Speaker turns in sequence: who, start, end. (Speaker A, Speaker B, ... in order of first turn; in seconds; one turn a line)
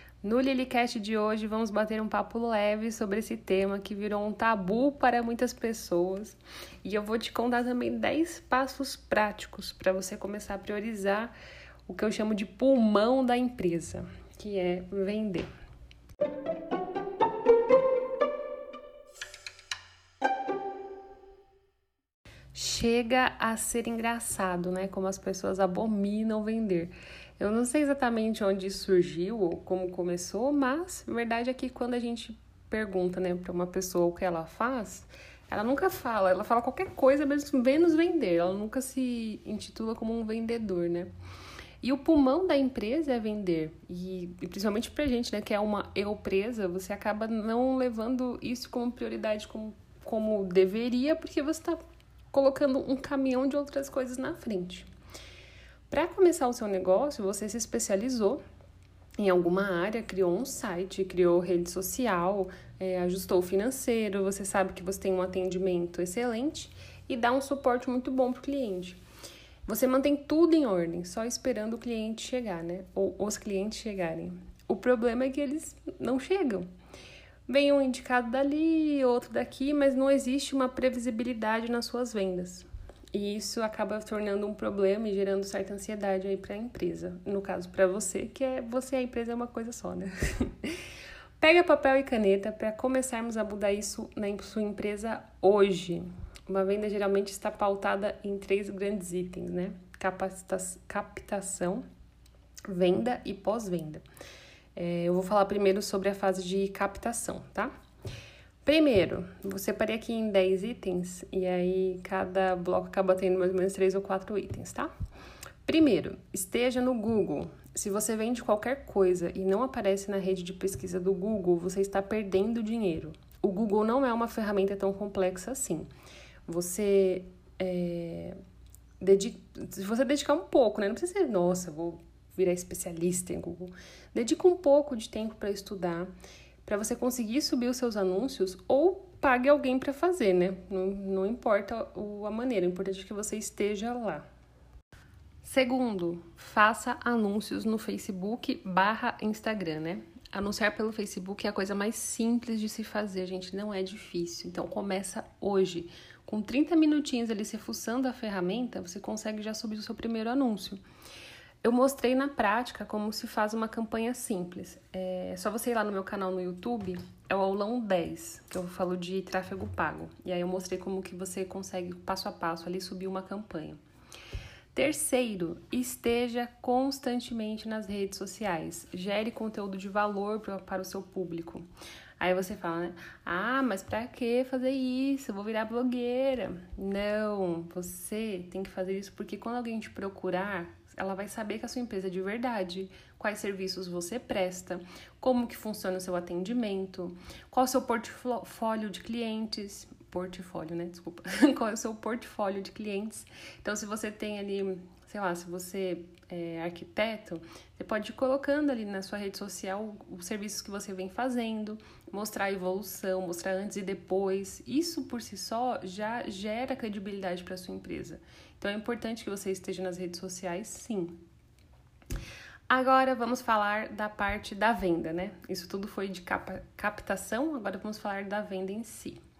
Speaker A: 0.2-11.3
Speaker A: 11.9-15.5
Speaker A: 22.5-41.1
Speaker A: 41.8-51.8
Speaker A: 52.3-54.9
Speaker A: 55.9-58.4
Speaker A: 59.2-69.0
Speaker A: 69.7-76.7
Speaker A: 77.5-90.8
Speaker A: 91.4-101.8
Speaker A: 102.7-104.0
Speaker A: 104.8-107.7
Speaker A: 108.6-114.9
Speaker A: 115.6-125.9
Speaker A: 126.5-128.3
Speaker A: 129.0-136.1
Speaker A: 136.6-144.2
Speaker A: 145.4-160.8
Speaker A: 161.6-173.8
Speaker A: 174.7-181.7
Speaker A: 182.2-221.2
Speaker A: 222.7-229.2